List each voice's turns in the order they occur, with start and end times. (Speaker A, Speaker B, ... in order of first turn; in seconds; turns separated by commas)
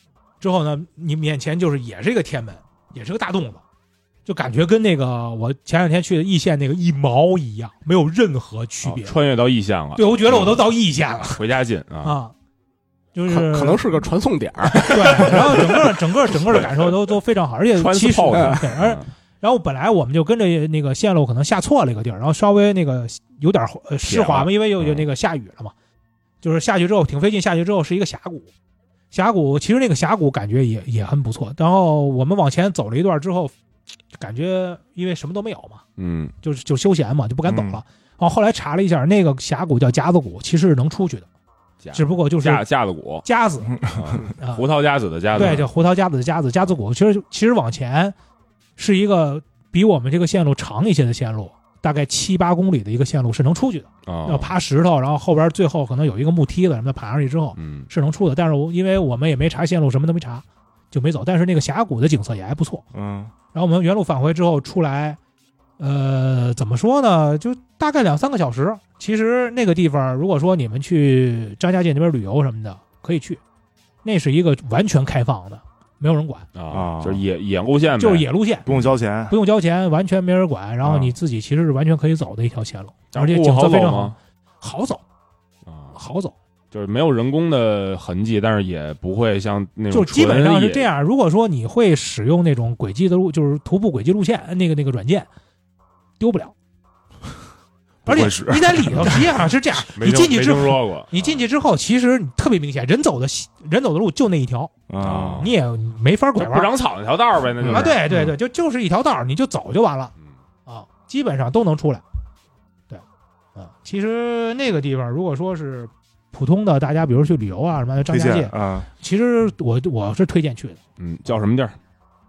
Speaker A: 0.4-3.6, Speaker A: 4.2-9.1, Speaker B: 8.8-10.7, Speaker A: 9.9-11.4, Speaker B: 11.3-12.2, Speaker A: 12.0-12.3, Speaker A: 13.1-13.8, Speaker C: 13.3-15.7, Speaker B: 14.8-15.4, Speaker A: 14.9-25.7, Speaker B: 17.8-19.1, Speaker C: 18.3-18.6, Speaker B: 24.1-25.1, Speaker A: 26.4-28.5, Speaker A: 29.1-33.5, Speaker A: 34.2-35.8, Speaker B: 36.0-36.3, Speaker A: 36.4-41.3, Speaker B: 41.8-43.2, Speaker A: 41.9-42.6, Speaker A: 43.2-43.8, Speaker D: 43.7-44.2, Speaker B: 43.9-45.7, Speaker A: 44.4-44.6, Speaker A: 45.3-48.1, Speaker A: 48.8-62.8, Speaker B: 54.0-54.5, Speaker B: 57.5-57.9, Speaker D: 62.9-63.3, Speaker A: 63.5-65.2, Speaker A: 65.8-73.4, Speaker A: 74.0-76.5, Speaker B: 76.5-78.3, Speaker D: 76.7-77.2, Speaker A: 78.0-78.7, Speaker D: 78.7-79.4, Speaker A: 79.3-85.0, Speaker B: 83.1-84.2, Speaker B: 85.7-85.9, Speaker A: 85.9-86.3, Speaker B: 86.7-90.9, Speaker A: 89.9-95.3, Speaker A: 96.2-96.5, Speaker D: 98.0-99.2, Speaker A: 98.0-104.7, Speaker B: 99.9-101.4, Speaker D: 104.9-105.5, Speaker B: 105.0-105.5, Speaker A: 105.3-106.7, Speaker B: 106.4-108.1, Speaker A: 107.7-110.1, Speaker A: 110.7-112.0, Speaker A: 113.5-120.8, Speaker D: 118.1-118.9, Speaker B: 121.0-121.8